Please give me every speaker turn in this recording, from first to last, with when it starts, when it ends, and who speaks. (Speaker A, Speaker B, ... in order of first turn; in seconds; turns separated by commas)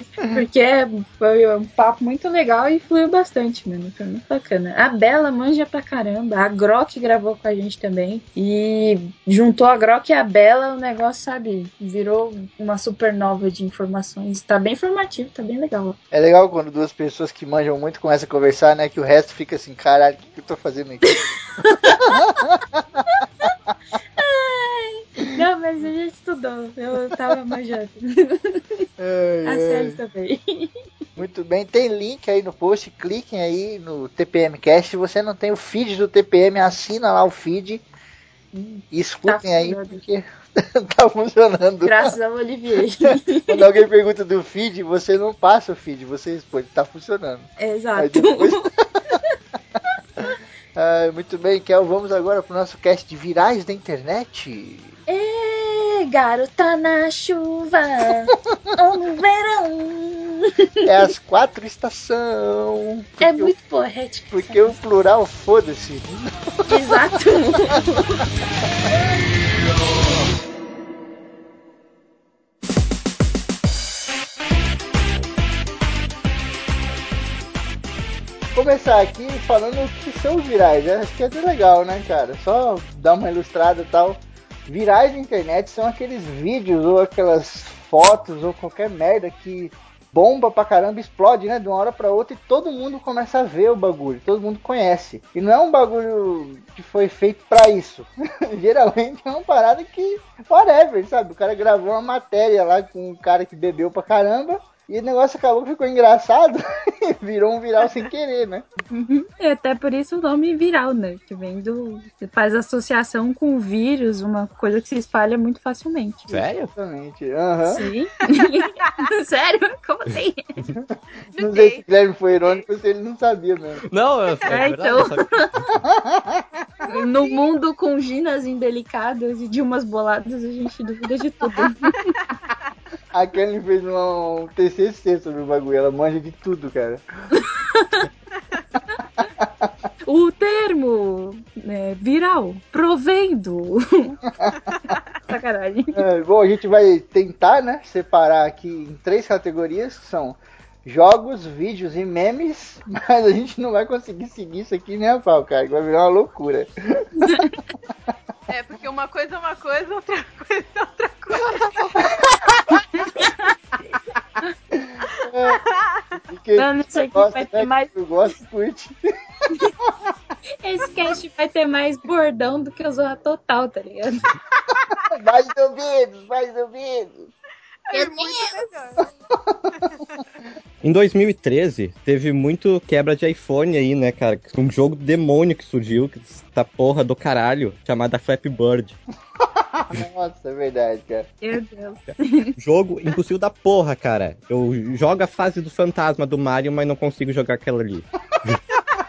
Speaker A: 0.2-16.0, Speaker B: 16.1-21.1, Speaker A: 21.6-22.3, Speaker B: 21.8-22.8, Speaker A: 24.2-28.9, Speaker B: 29.0-30.0, Speaker A: 29.4-30.7, Speaker B: 31.1-37.8, Speaker B: 38.5-42.1, Speaker A: 39.3-40.0, Speaker A: 41.8-43.5, Speaker B: 43.5-49.2, Speaker A: 47.6-49.2, Speaker B: 50.2-55.0, Speaker A: 55.1-60.8, Speaker B: 60.8-63.5, Speaker A: 63.2-64.8, Speaker B: 64.3-66.8, Speaker A: 66.7-68.2, Speaker B: 78.5-108.7, Speaker A: 108.9-116.3, Speaker C: 116.3-116.7, Speaker B: 116.7-117.8, Speaker A: 117.7-120.4, Speaker D: 121.3-121.8, Speaker B: 121.3-123.8, Speaker C: 123.9-125.3, Speaker A: 124.5-125.5, Speaker B: 125.8-126.4, Speaker A: 126.8-132.0, Speaker B: 133.1-137.0, Speaker A: 137.3-138.1, Speaker B: 139.4-139.7, Speaker A: 140.1-144.2, Speaker D: 144.7-145.0, Speaker A: 145.3-146.0, Speaker B: 145.9-156.7, Speaker A: 157.2-157.6, Speaker D: 158.5-162.5, Speaker A: 162.9-163.3, Speaker B: 164.7-165.6, Speaker D: 165.5-165.7, Speaker B: 166.3-168.9, Speaker A: 166.6-167.9, Speaker A: 170.6-174.2, Speaker B: 175.1-177.3, Speaker D: 177.9-179.0, Speaker A: 177.9-178.6, Speaker D: 179.8-180.2, Speaker C: 180.8-189.0, Speaker B: 189.8-191.3, Speaker A: 191.4-192.5, Speaker C: 192.6-198.6